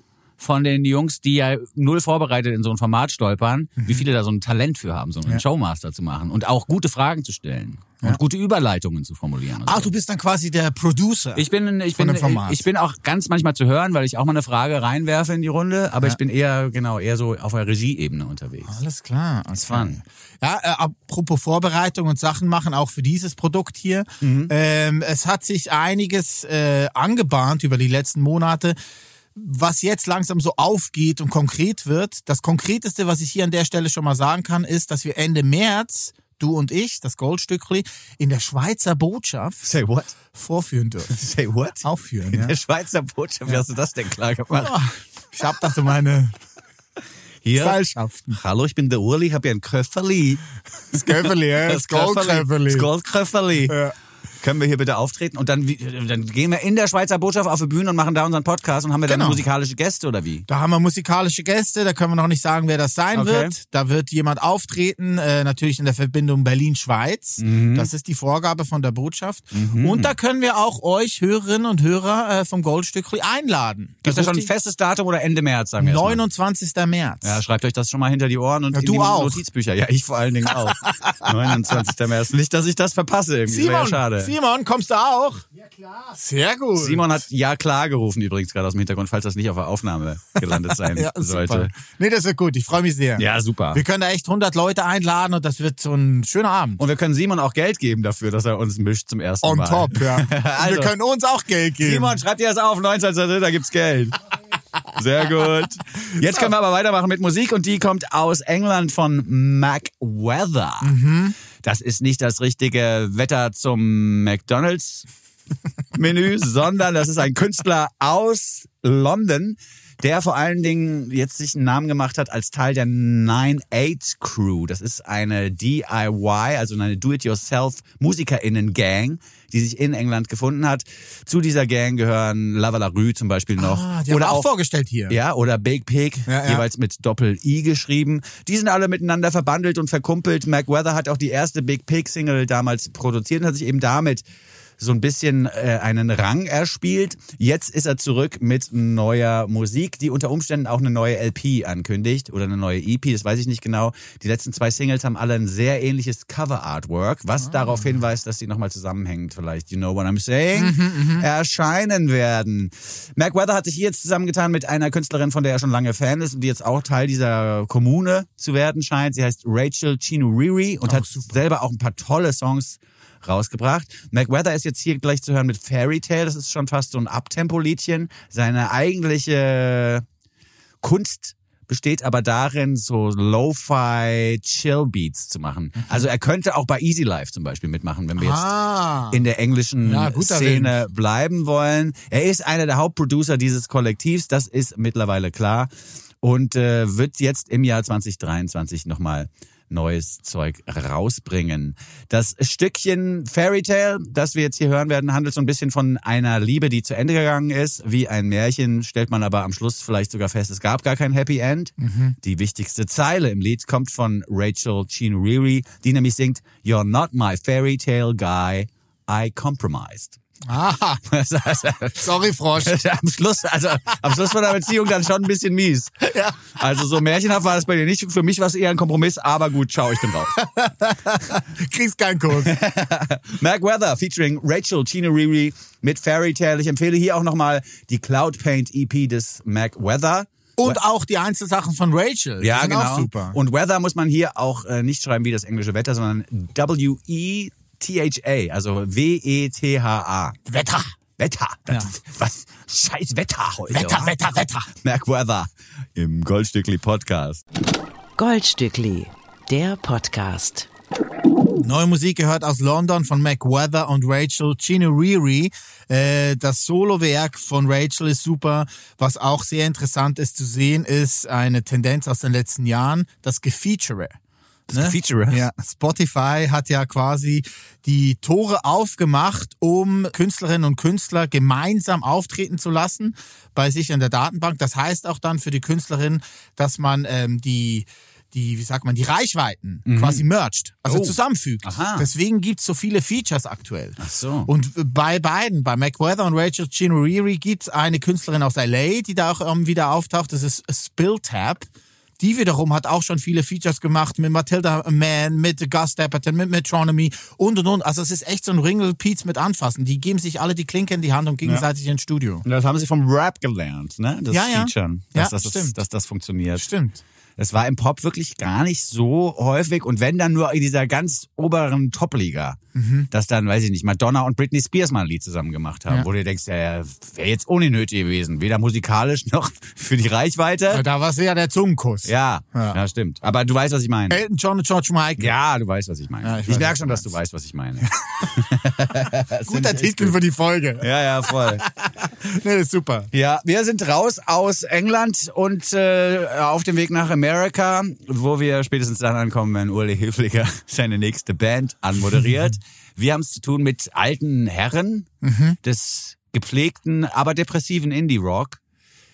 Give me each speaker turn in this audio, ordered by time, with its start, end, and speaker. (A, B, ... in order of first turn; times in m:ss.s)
0:00.4-0:09.9 A
0:09.7-0:12.6 B
0:11.4-0:18.7 A
0:18.7-0:28.8 B
0:19.6-0:20.0 A
0:24.2-0:24.5 A
0:29.4-0:39.7 B
0:39.6-0:40.2 A
0:40.3-0:41.2 B
0:41.1-0:44.8 A
0:41.8-0:42.6 B
0:44.5-0:46.3 B
0:47.4-0:47.8 A
0:47.6-0:48.4 B
0:48.3-0:50.4 A
0:50.9-0:52.9 B
0:50.9-0:53.8 A
0:53.7-0:53.9 B
0:54.4-1:00.4 A
0:59.1-0:59.4 B
1:00.5-1:14.5 B
1:03.2-1:03.5 A
1:07.4-1:07.9 A
1:09.5-1:10.1 A
1:14.1-1:16.2 A
1:15.8-1:17.4 B
1:17.2-1:24.3 A
1:18.7-1:19.4 B
1:20.8-1:21.7 B
1:23.5-1:27.0 B
1:26.8-1:31.7 A
1:30.4-1:36.8 B
1:33.2-1:33.8 A
1:36.8-1:40.9 A
1:39.4-1:42.2 B
1:41.8-1:44.2 A
1:45.0-1:50.9 A
1:50.8-1:51.4 B
1:51.6-1:55.1 A
1:56.0-2:14.5 A
2:13.6-2:15.2 B
2:15.1-2:24.2 A
2:16.3-2:16.6 B
2:24.8-3:00.0 A
2:40.6-2:41.3 B
2:50.9-2:51.3 B
3:00.8-3:08.5 A
3:08.2-3:09.2 B
3:09.1-3:15.7 A
3:09.8-3:10.8 B
3:16.2-3:40.2 A
3:31.8-3:32.2 B
3:40.5-3:41.0 B
3:41.1-3:50.4 A
3:42.0-3:42.8 B
3:46.1-3:46.4 B
3:50.4-3:52.6 B
3:52.4-4:00.8 A
4:00.6-4:03.4 B
4:02.4-4:10.4 A
4:10.5-4:10.9 B
4:11.2-4:17.4 A
4:13.7-4:14.7 B
4:18.2-4:20.7 C
4:21.6-4:34.2 B
4:34.7-4:35.4 A
4:34.7-5:01.7 B
4:49.9-4:50.2 A
4:50.9-4:52.1 A
4:54.0-4:54.5 A
5:02.2-5:12.4 B
5:12.4-5:16.7 A
5:14.3-5:15.8 B
5:16.6-5:17.0 B
5:17.4-5:22.6 A
5:22.8-5:23.1 B
5:23.1-5:30.8 A
5:30.7-5:32.8 B
5:32.1-5:34.2 A
5:34.1-5:35.3 B
5:35.2-5:40.2 A
5:36.2-5:37.1 B
5:37.8-5:38.3 B
5:39.5-5:43.1 B
5:40.8-5:41.6 A
5:43.1-5:55.1 A
5:55.2-5:55.6 B
5:55.6-5:58.6 A